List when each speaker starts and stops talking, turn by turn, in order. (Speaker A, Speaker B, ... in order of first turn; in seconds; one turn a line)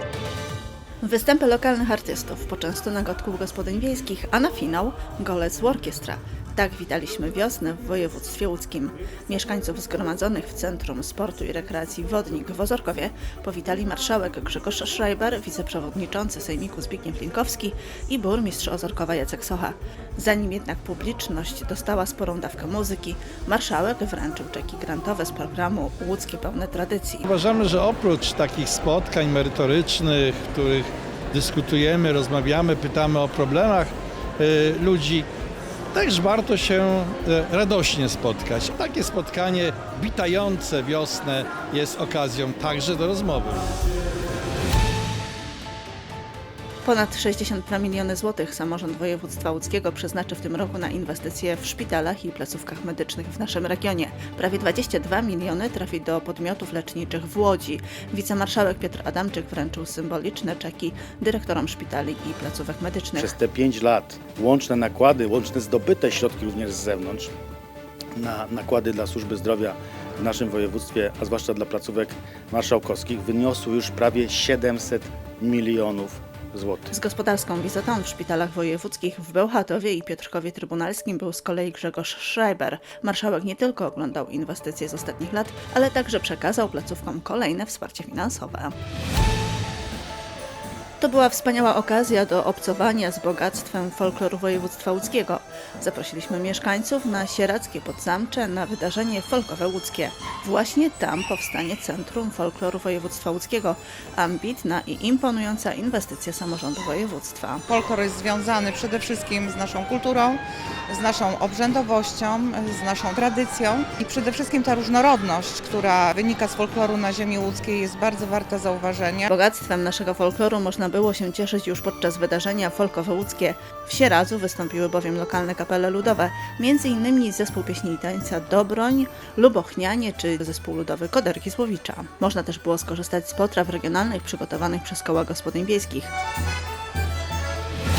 Speaker A: 1.0-27.2
Speaker B: 27.3-35.3
Speaker B: 35.9-43.7
Speaker A: 46.8-63.4
Speaker C: 63.2-67.3
Speaker C: 68.1-76.9
Speaker A: 76.9-88.8
Speaker A: 91.0-107.7
Speaker D: 107.7-119.3
Speaker A: 119.3-136.1